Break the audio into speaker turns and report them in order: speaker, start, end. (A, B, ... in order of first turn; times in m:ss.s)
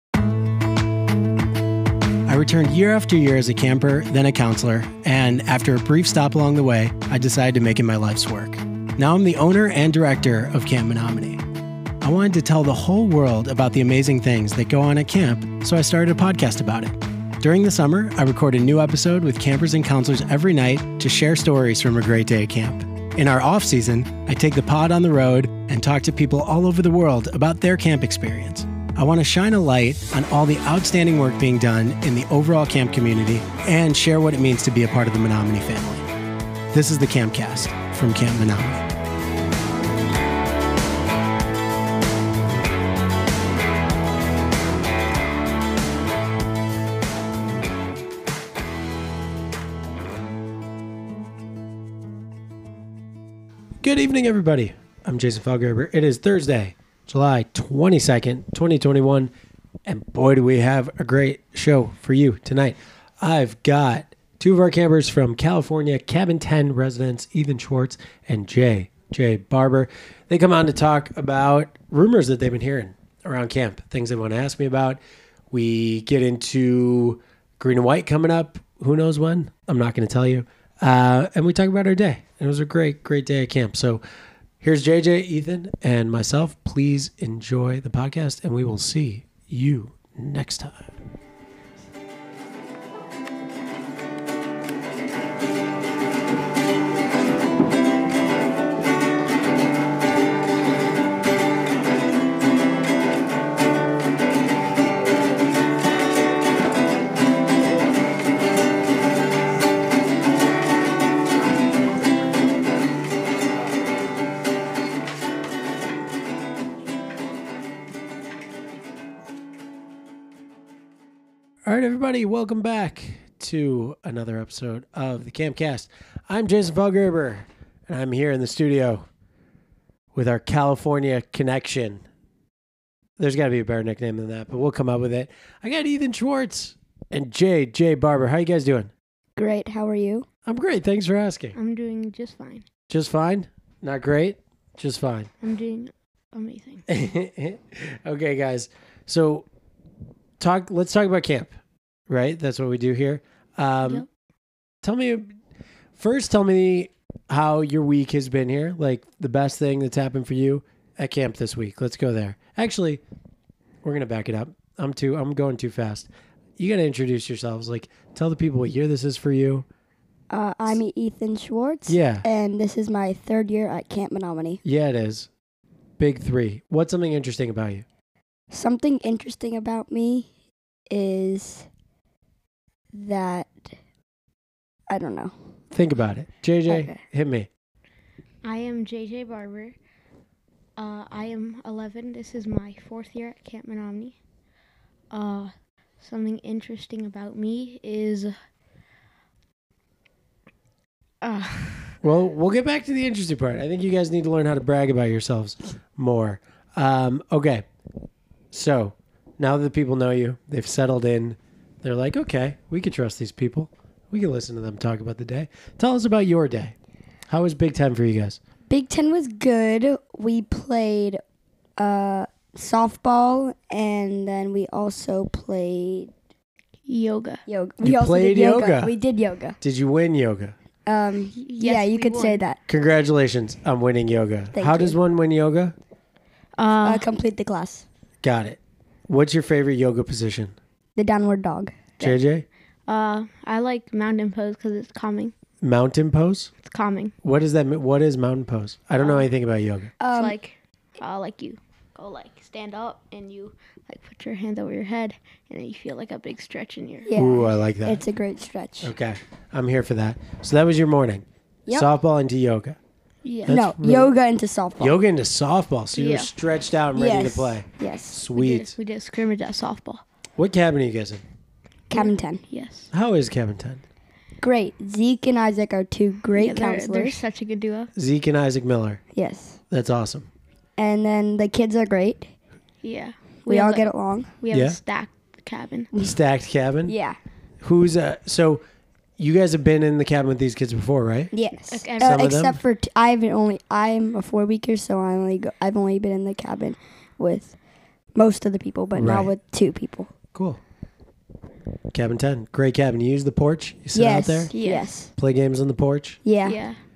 0:02.3-0:11.4 A
0:12.0-0:36.1 A
0:36.7-0:38.8 A
0:53.8-0:59.3 A
0:59.8-1:24.0 A
1:24.6-1:30.9 A
2:01.6-2:09.0 A
2:10.1-2:12.0 A
2:13.2-2:18.9 A
2:19.4-2:20.3 B
2:20.4-2:21.6 A
2:21.5-2:22.7 C
2:22.9-2:25.3 A
2:25.4-2:26.8 C
2:26.9-2:29.4 A
2:30.4-2:31.5 A
2:32.1-2:34.0 A
2:34.8-2:35.4 A
2:36.0-2:43.0 A
2:43.8-2:49.7 A
2:50.3-2:54.6 B
2:51.9-2:52.2 A
2:54.6-2:55.3 A
2:56.0-2:57.8 A
2:58.5-3:00.3 B
3:00.9-3:01.7 B
3:02.9-3:03.7 B
3:04.9-3:05.3 B
3:05.7-3:07.5 A
3:06.7-3:07.0 B
3:08.4-3:09.8 C
3:10.8-3:14.2 C
3:15.1-3:18.3 C
3:21.2-3:22.0 C
3:22.0-3:27.6 A
3:28.5-3:36.8 A
3:37.3-3:38.4 A
3:38.7-3:41.2 B
3:41.8-3:46.1 B
3:46.9-3:47.4 C
3:47.5-3:49.6 B
3:47.8-3:48.9 A
3:49.6-3:50.5 A
3:50.8-3:52.6 B
3:51.4-3:52.4 C
3:52.7-3:55.7 A
3:54.5-3:55.0 B
3:56.6-3:57.0 C
3:56.8-3:57.8 B
3:58.2-4:00.5 A
4:01.0-4:01.8 B
4:02.0-4:02.4 A
4:02.9-4:05.3 C
4:05.6-4:06.5 A
4:06.6-4:07.1 C
4:07.2-4:09.9 A
4:09.0-4:09.3 C
4:10.0-4:10.4 B
4:10.1-4:17.1 C
4:17.0-4:18.9 B
4:17.2-4:18.0 A
4:18.8-4:22.8 A
4:23.2-4:23.6 C
4:23.5-4:24.1 A
4:23.5-4:25.0 B
4:24.8-4:28.8 A
4:25.9-4:26.3 C
4:26.9-4:28.2 B
4:28.3-4:30.0 C
4:30.4-4:31.2 A
4:31.9-4:32.4 B
4:31.9-4:32.9 C
4:32.9-4:33.8 A
4:34.4-4:37.2 B
4:36.3-4:37.9 C
4:37.9-4:39.0 A
4:39.2-4:39.6 B
4:39.7-4:40.3 A
4:40.8-4:42.3 B
4:42.8-4:45.9 C
4:43.5-4:44.3 B
4:44.5-4:44.8 A
4:46.0-4:46.9 A
4:46.9-4:47.2 B
4:47.6-4:48.6 A
4:49.2-4:51.3 A
4:51.3-4:57.6 B
4:51.7-4:52.2 C
4:52.0-4:52.6 A
4:58.2-5:00.1 B
4:59.0-4:59.3 A
5:00.3-5:00.6 A
5:01.9-5:04.5 A
5:03.9-5:05.1 B
5:04.5-5:04.9 C
5:05.2-5:06.2 A
5:06.2-5:06.6 B
5:06.4-5:06.8 C